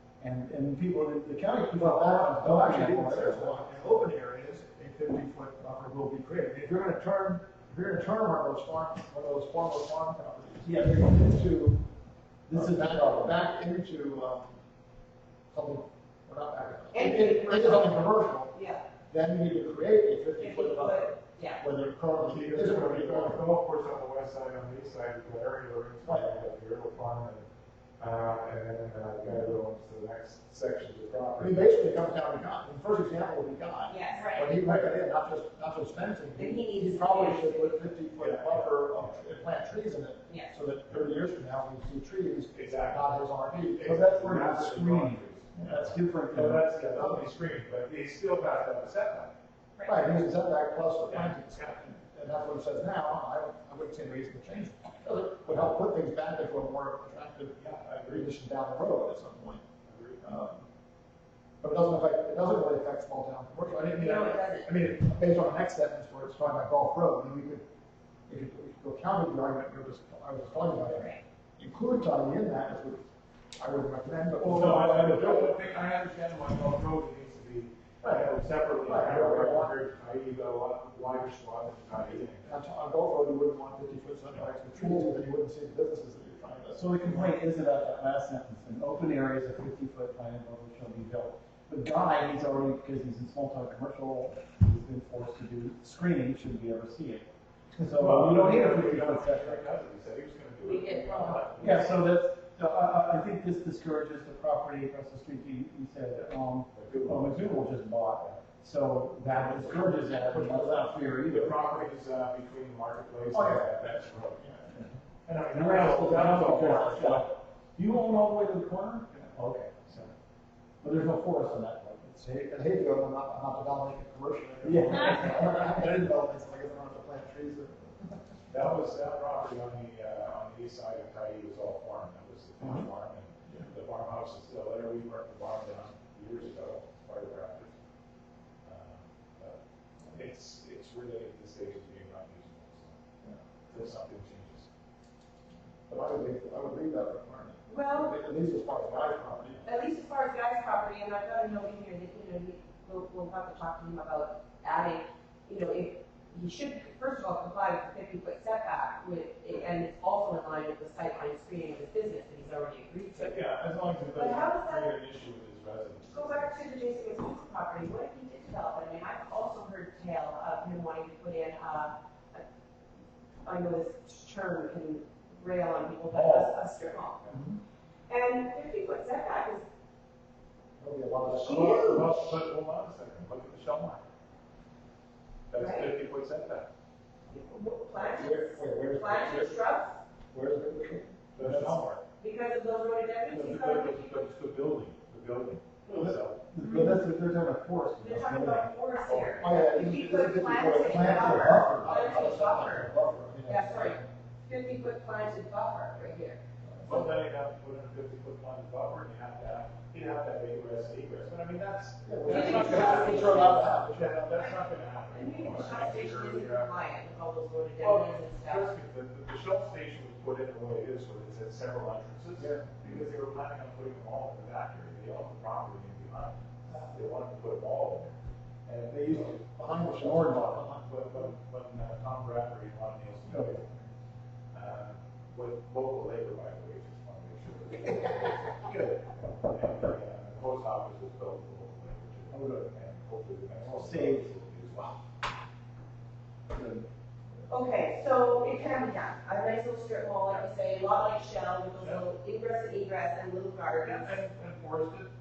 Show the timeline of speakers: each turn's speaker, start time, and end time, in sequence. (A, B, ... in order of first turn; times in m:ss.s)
0:00.2-0:03.6 A
0:01.8-0:11.8 B
0:10.6-0:11.5 A
0:12.5-0:13.4 A
0:12.5-0:14.5 B
0:15.5-0:23.4 B
0:16.9-0:18.8 C
0:20.4-0:21.6 C
0:22.2-0:27.4 D
0:26.0-0:26.3 B
0:28.0-0:31.7 D
0:31.4-0:44.0 B
0:33.9-0:34.4 C
0:36.4-0:38.0 C
0:38.2-0:39.2 D
0:40.3-0:40.5 C
0:42.5-0:43.1 D
0:43.6-0:49.3 D
0:43.8-0:46.6 A
0:46.7-0:47.3 B
0:49.8-0:59.6 B
0:51.1-0:51.4 D
0:57.6-0:58.2 D
0:59.8-1:00.2 D
1:00.2-1:00.6 B
1:01.6-1:07.6 B
1:03.9-1:04.7 C
1:08.3-1:13.0 B
1:10.8-1:11.2 C
1:13.6-1:15.6 B
1:14.4-1:22.5 D
1:18.0-1:18.3 B
1:18.8-1:19.8 B
1:22.0-1:27.3 B
1:26.7-1:39.6 A
1:37.9-1:42.1 D
1:40.6-1:41.5 C
1:41.6-1:51.6 A
1:46.7-1:48.4 D
1:49.5-1:50.5 B
1:50.5-1:54.4 D
1:53.3-1:54.7 B
1:55.2-1:57.3 D
1:55.5-1:59.8 A
1:59.8-2:00.1 D
2:00.8-2:02.2 A
2:02.1-2:08.2 B
2:04.6-2:06.1 A
2:08.5-2:17.8 D
2:18.6-2:19.6 D
2:20.1-2:23.0 D
2:23.7-2:24.7 D
2:25.9-2:29.6 B
2:27.7-2:28.2 C
2:29.6-2:43.5 C
2:43.1-2:46.5 D
2:44.1-2:44.9 C
2:46.1-2:52.4 C
2:53.4-2:57.2 C
2:56.1-2:56.7 D
2:57.2-2:57.5 D
2:58.1-2:59.6 C
3:00.8-3:02.1 B
3:01.3-3:04.0 D
3:01.4-3:02.2 C
3:05.5-3:06.7 D
3:05.6-3:05.9 C
3:07.3-3:10.0 C
3:08.1-3:09.6 B
3:10.3-3:11.7 B
3:11.3-3:12.0 D
3:12.2-3:14.3 C
3:13.3-3:16.4 D
3:15.9-3:18.7 A
3:16.6-3:16.9 C
3:18.0-3:26.4 C
3:19.0-3:19.6 D
3:19.4-3:24.1 B
3:20.7-3:22.0 A
3:26.6-3:27.1 B
3:26.8-3:36.7 D
3:32.0-3:34.2 B
3:32.2-3:33.7 C
3:35.1-3:38.7 C
3:37.8-3:49.4 D
3:42.4-3:42.8 B
3:49.1-3:51.0 B
3:49.8-3:50.7 A
3:50.8-3:53.9 D
3:53.3-3:53.5 A
3:54.5-4:05.0 D
4:02.3-4:02.7 A
4:03.6-4:04.3 A
4:06.5-4:06.8 A
4:07.5-4:14.2 C
4:11.8-4:12.0 D
4:13.7-4:15.1 D